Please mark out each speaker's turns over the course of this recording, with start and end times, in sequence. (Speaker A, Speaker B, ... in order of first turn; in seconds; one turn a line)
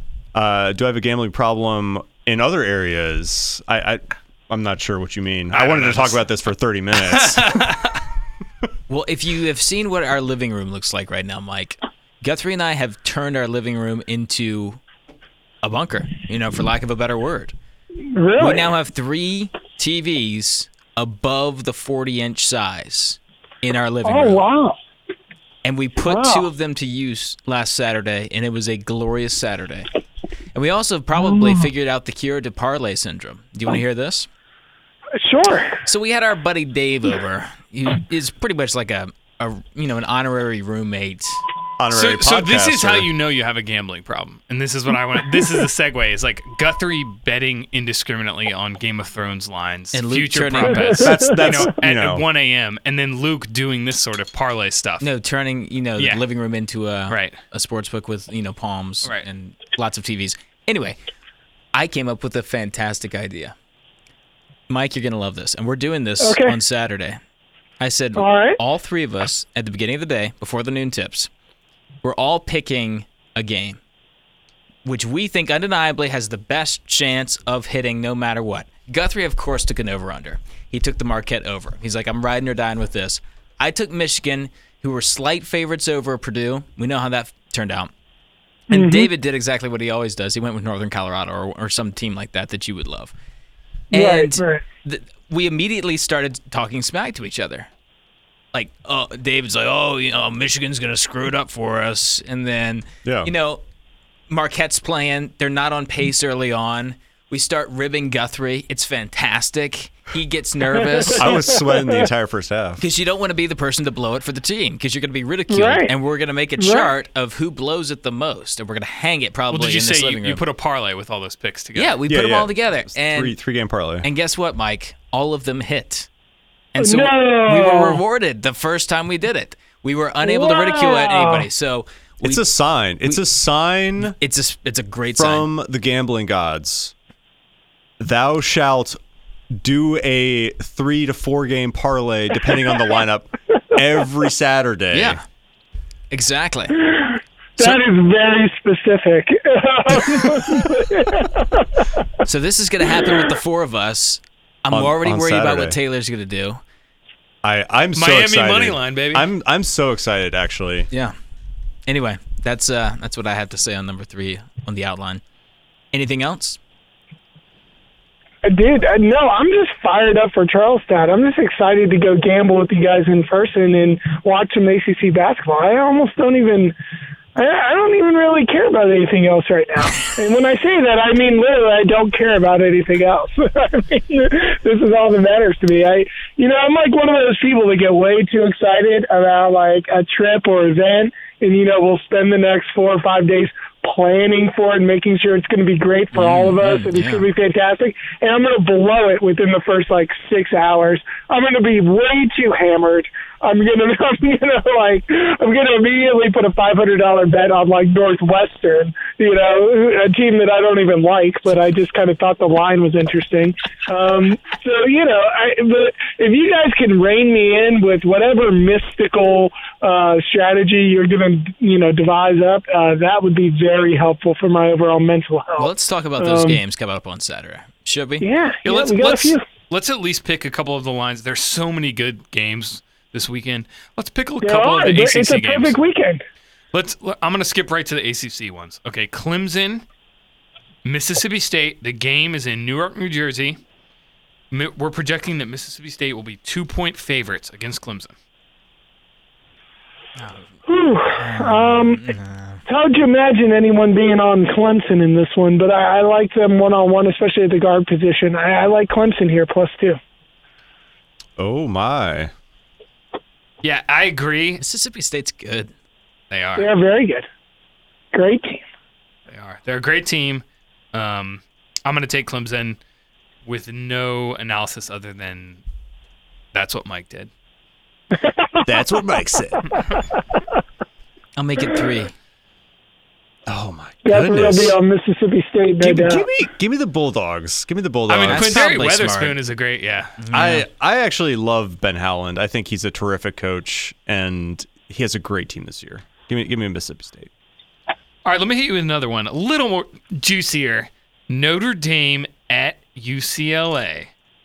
Speaker A: 0.3-7.6
Speaker B: 5.5-6.2
Speaker B: 7.0-8.0
Speaker C: 8.9-14.8
Speaker C: 15.6-17.5
Speaker D: 18.1-18.7
Speaker C: 18.4-24.4
Speaker D: 24.0-24.8
Speaker C: 25.6-29.9
Speaker D: 26.0-26.5
Speaker C: 30.5-34.3
Speaker D: 31.2-31.7
Speaker D: 35.2-35.8
Speaker C: 35.8-41.4
Speaker A: 41.8-43.1
Speaker B: 41.9-55.0
Speaker C: 49.9-51.1
Speaker A: 51.0-52.2
Speaker C: 55.0-61.0
Speaker B: 56.0-56.2
Speaker B: 57.1-57.4
Speaker C: 61.7-63.5
Speaker C: 64.7-67.2
Speaker D: 66.2-66.6
Speaker C: 67.8-71.3
Speaker D: 68.2-68.6
Speaker C: 72.0-73.8
Speaker C: 74.8-87.9
Speaker C: 88.7-93.1
Speaker D: 88.7-89.1
Speaker C: 93.9-97.7
Speaker D: 93.9-94.6
Speaker C: 98.5-103.6
Speaker A: 103.0-103.3
Speaker C: 104.3-111.5
Speaker D: 111.0-112.0
Speaker A: 111.1-112.8
Speaker C: 112.8-120.4
Speaker D: 115.5-115.9
Speaker D: 116.6-116.9
Speaker B: 119.5-122.0
Speaker C: 121.7-123.4
Speaker A: 122.1-124.0
Speaker C: 124.0-126.1
Speaker C: 126.7-132.5
Speaker D: 126.8-128.0
Speaker D: 130.2-131.5
Speaker A: 132.2-134.2
Speaker C: 134.0-135.5
Speaker A: 135.2-136.9
Speaker A: 138.0-139.0
Speaker A: 139.5-145.2
Speaker C: 144.9-145.2
Speaker C: 146.1-146.8
Speaker D: 147.6-151.6
Speaker C: 152.2-156.6
Speaker A: 154.7-155.8
Speaker A: 157.4-160.9
Speaker B: 157.9-159.3
Speaker C: 161.9-165.2
Speaker C: 165.9-166.6
Speaker D: 168.4-176.7
Speaker D: 177.3-226.6
Speaker C: 196.1-197.2
Speaker C: 225.6-228.3
Speaker D: 228.2-229.4
Speaker B: 228.6-235.8
Speaker D: 234.4-236.2
Speaker B: 236.7-239.8
Speaker B: 240.8-243.6
Speaker B: 244.5-248.1
Speaker C: 250.2-250.5
Speaker D: 250.7-252.1
Speaker C: 251.1-252.6
Speaker D: 252.7-260.0
Speaker A: 261.4-262.3
Speaker B: 263.6-264.6
Speaker C: 264.6-265.7
Speaker B: 266.3-266.7
Speaker D: 266.6-267.3
Speaker D: 268.1-268.6
Speaker B: 269.3-272.8
Speaker B: 273.4-275.6
Speaker B: 276.5-277.3
Speaker D: 278.1-278.7
Speaker A: 278.6-279.7
Speaker C: 281.4-282.1
Speaker A: 283.5-284.8
Speaker D: 284.0-286.2
Speaker A: 285.8-288.7
Speaker B: 288.1-290.1
Speaker C: 288.3-289.4
Speaker C: 290.2-290.6
Speaker A: 290.3-297.3
Speaker B: 298.2-304.1